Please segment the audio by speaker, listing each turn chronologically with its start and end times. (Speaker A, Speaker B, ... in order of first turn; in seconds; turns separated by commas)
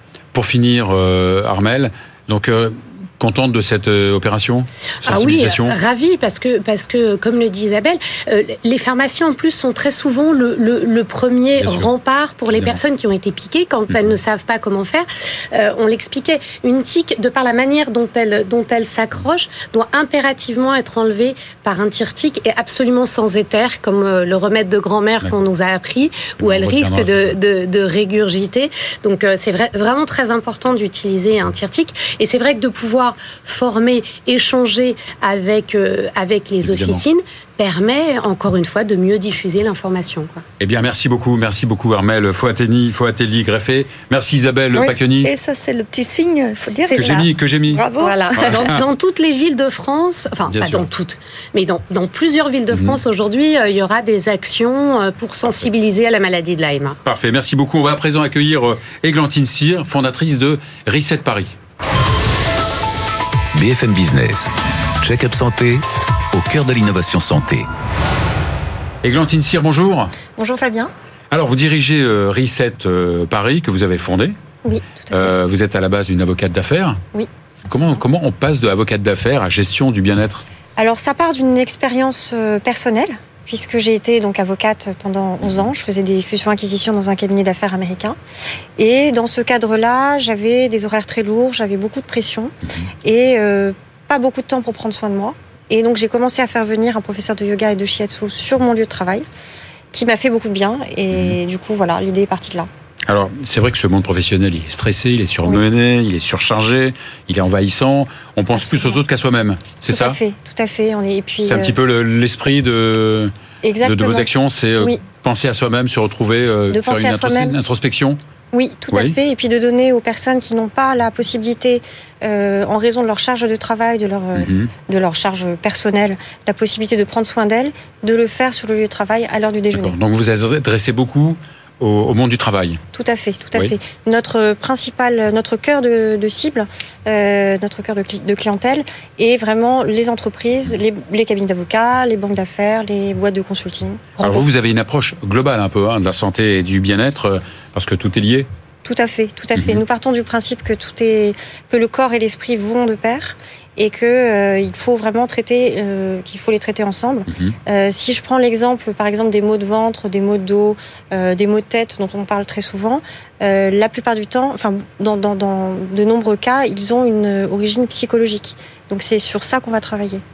Speaker A: 0.3-5.8, Speaker B: 5.0-40.4, Speaker A: 11.6-11.9, Speaker A: 26.4-27.4, Speaker A: 36.6-37.0, Speaker A: 40.6-45.3, Speaker C: 44.9-48.2, Speaker A: 46.9-47.8, Speaker B: 48.0-57.0, Speaker A: 48.3-48.8, Speaker A: 50.5-50.9, Speaker A: 52.7-53.0, Speaker A: 57.0-61.5, Speaker D: 63.5-67.7, Speaker A: 69.0-70.1, Speaker E: 70.4-70.9, Speaker A: 71.3-74.4, Speaker E: 74.6-75.3, Speaker A: 75.1-77.0, Speaker A: 77.7-80.4, Speaker E: 80.8-88.2, Speaker E: 88.8-92.5, Speaker E: 93.0-99.2, Speaker E: 99.9-102.7, Speaker A: 103.1-110.2, Speaker E: 108.5-109.0, Speaker E: 109.9-111.8, Speaker A: 111.4-118.2, Speaker E: 113.6-114.3, Speaker E: 116.7-117.5, Speaker E: 118.5-129.9, Speaker A: 118.9-119.2, Speaker A: 124.3-124.7, Speaker A: 129.7-132.8, Speaker E: 132.9-144.4, Speaker A: 144.2-148.5, Speaker E: 148.8-170.2, Speaker A: 149.6-149.8, Speaker A: 157.3-157.5